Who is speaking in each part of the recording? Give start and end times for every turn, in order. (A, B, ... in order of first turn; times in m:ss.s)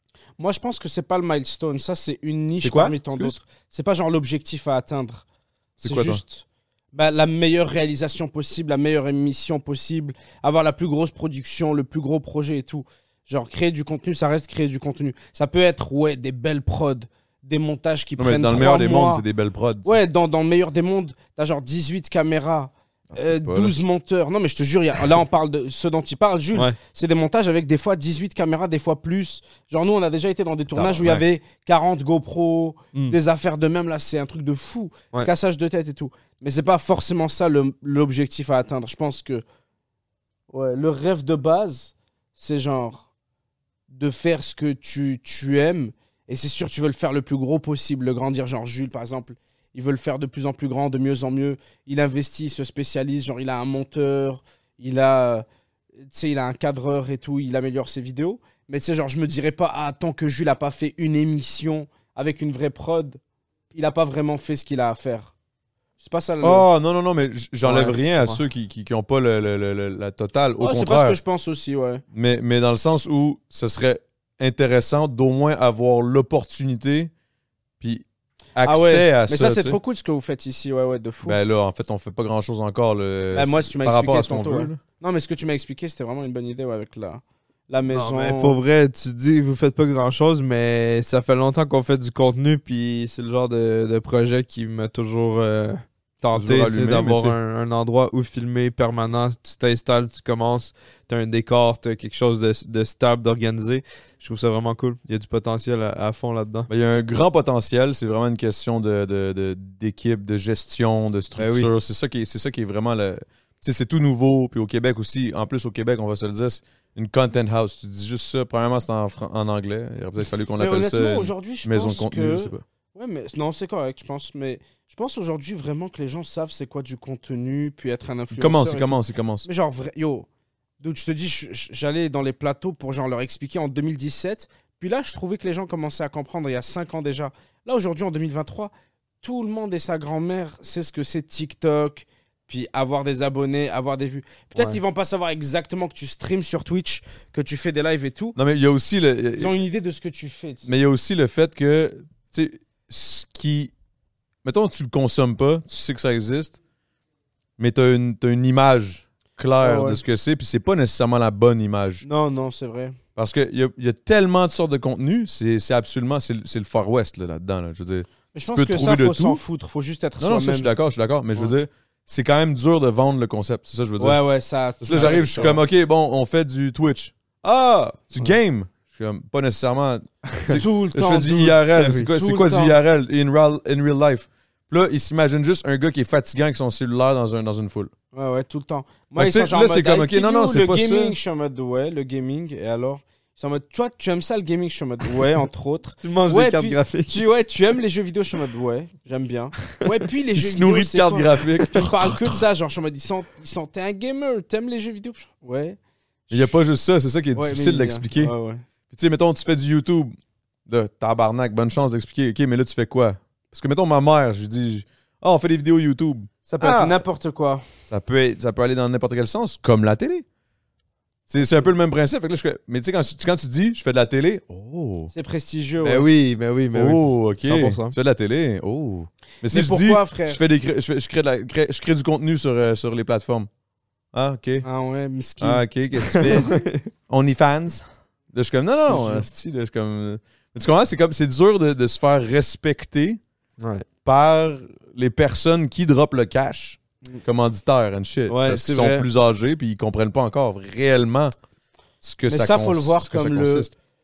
0:00.4-0:05.2 A
0:02.6-0:03.4 B
0:05.8-0:19.2 A
0:05.8-0:06.2 B
0:18.2-0:20.0 B
0:19.8-0:39.4 A
0:23.1-0:23.8 B
0:30.7-0:31.2 B
0:40.5-0:43.1 A
0:43.9-0:55.4 A
0:56.1-1:03.2 A
1:03.7-1:05.3 A
1:06.0-1:06.6 A
1:06.4-1:11.2 B
1:07.6-1:08.4 C
1:10.6-1:12.0 A
1:12.1-1:17.1 B
1:18.5-1:19.8 B
1:18.6-1:21.4 A
1:21.2-1:24.8 B
1:23.3-1:28.6 A
1:27.9-1:46.7 C
1:36.3-1:37.4 B
1:46.7-2:02.6 B
1:51.4-1:51.7 C
2:00.6-2:10.2 A
2:08.3-2:09.4 B
2:10.8-2:28.4 A
2:24.5-2:24.8 C
2:28.4-2:29.5 B
2:29.4-2:30.7 A
2:30.7-2:33.7 B
2:34.4-2:36.6 B
2:37.6-2:42.0 B
2:39.6-2:40.0 A
2:42.0-2:43.0 A
2:43.2-2:49.4 B
2:48.3-2:50.7 A
2:50.2-2:54.2 B
2:54.0-2:55.6 A
2:54.8-3:07.9 B
2:54.9-2:55.2 C
3:00.3-3:00.6 C
3:00.5-3:02.8 A
3:01.8-3:02.1 C
3:08.1-3:25.8 A
3:09.2-3:11.2 B
3:16.0-3:17.2 C
3:20.4-3:22.4 B
3:26.3-3:26.6 A
3:26.3-3:28.3 B
3:27.3-3:28.6 A
3:28.9-3:30.2 B
3:30.7-3:37.0 B
3:36.5-3:37.6 A
3:37.9-3:40.2 B
3:41.3-3:45.1 B
3:41.4-3:41.7 A
3:45.1-3:46.0 A
3:45.8-3:48.0 C
3:46.7-3:53.5 B
3:49.5-3:50.4 A
3:54.1-3:54.6 B
3:54.6-3:55.6 A
3:55.4-4:03.2 B
3:56.1-3:56.8 C
3:58.8-3:59.2 C
4:03.6-4:03.8 C
4:04.0-4:11.3 B
4:08.3-4:09.0 C
4:12.0-4:13.7 B
4:12.3-4:13.7 A